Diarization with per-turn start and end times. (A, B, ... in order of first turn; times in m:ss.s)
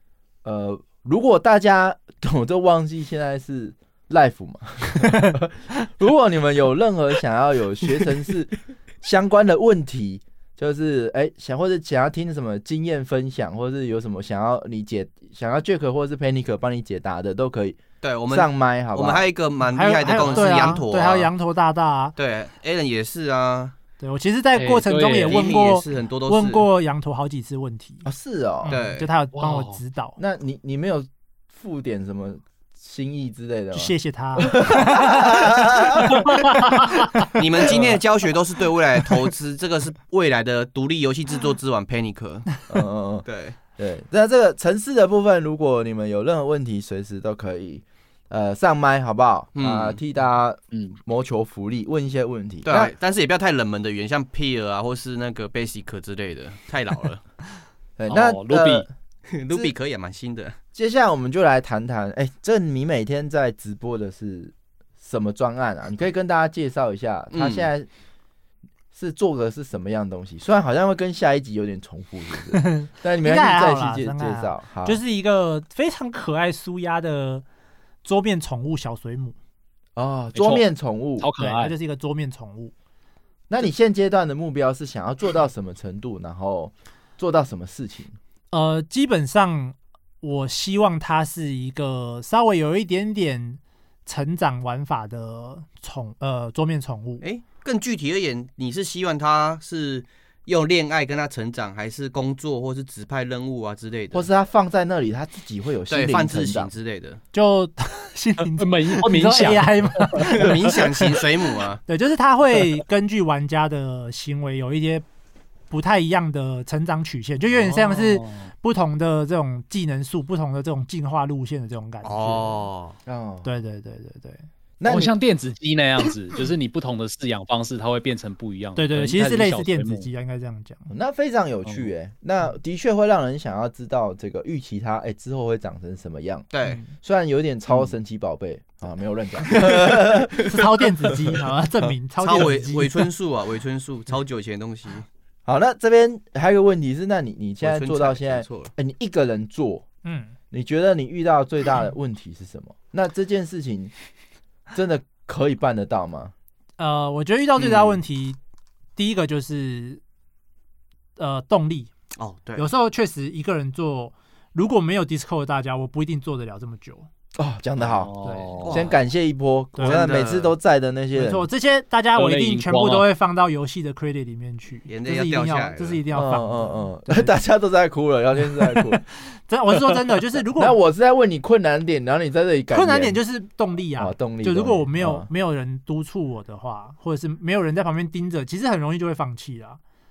0:00.4-0:19.3 A
0:18.0-0:21.3 B
0:19.7-0:22.1 C
0:22.2-0:23.7 B
0:24.0-0:28.1 C
0:24.6-0:25.4 D
0:25.3-0:26.6 B
0:28.0-0:28.7 A
0:28.7-0:30.2 C
0:28.7-0:29.1 B
0:29.4-0:29.8 D
0:30.2-0:36.4 A
0:33.7-0:37.3 C
0:37.4-0:42.5 B
0:37.6-0:38.0 A
0:42.7-0:52.9 A
0:43.2-0:43.6 B
0:49.6-0:50.0 B
0:52.6-0:57.2 B
0:58.0-0:58.9 A
0:58.1-0:58.9 D
0:59.3-1:00.6 B
1:00.7-1:07.9 A
1:07.3-1:07.7 B
1:08.9-1:15.0 A
1:12.6-1:17.4 C
1:18.0-1:19.4 C
1:20.0-1:21.3 A
1:20.3-1:20.6 D
1:21.2-1:21.7 D
1:21.4-1:22.7 C
1:23.5-1:28.2 A
1:28.5-1:37.2 C
1:37.2-1:44.3 B
1:44.1-1:46.7 A
1:45.9-1:47.2 B
1:47.3-1:51.2 C
1:48.6-1:50.5 D
1:50.2-1:51.8 B
1:51.9-1:55.0 C
1:55.7-2:02.7 C
1:57.5-1:58.5 D
2:02.0-2:03.0 B
2:03.1-2:03.5 A
2:03.4-2:04.4 C
2:04.8-2:05.1 A
2:04.8-2:10.1 D
2:08.8-2:10.9 C
2:10.9-2:20.5 A
2:16.5-2:16.8 B
2:19.5-2:20.4 B
2:20.4-2:23.0 C
2:22.2-2:25.1 B
2:25.5-2:29.8 A
2:27.6-2:28.7 B
2:30.0-2:30.4 C
2:30.5-2:33.9 A
2:34.7-2:36.3 A
2:36.8-2:38.4 C
2:37.6-2:38.0 B
2:39.0-2:40.0 C
2:41.2-2:41.9 C
2:42.2-2:42.7 B
2:42.6-2:47.1 C
2:47.4-2:48.1 A
2:47.8-2:48.8 D
2:48.2-2:48.7 C
2:48.6-2:49.0 B
2:48.6-2:51.5 A
2:49.8-2:50.0 C
2:49.8-2:50.5 B
2:51.1-2:57.3 C
2:52.2-2:53.1 D
2:54.9-2:56.0 B
2:56.1-2:59.0 A
2:59.5-3:00.8 C
3:00.6-3:03.2 A
3:02.7-3:09.8 C
3:04.0-3:05.3 A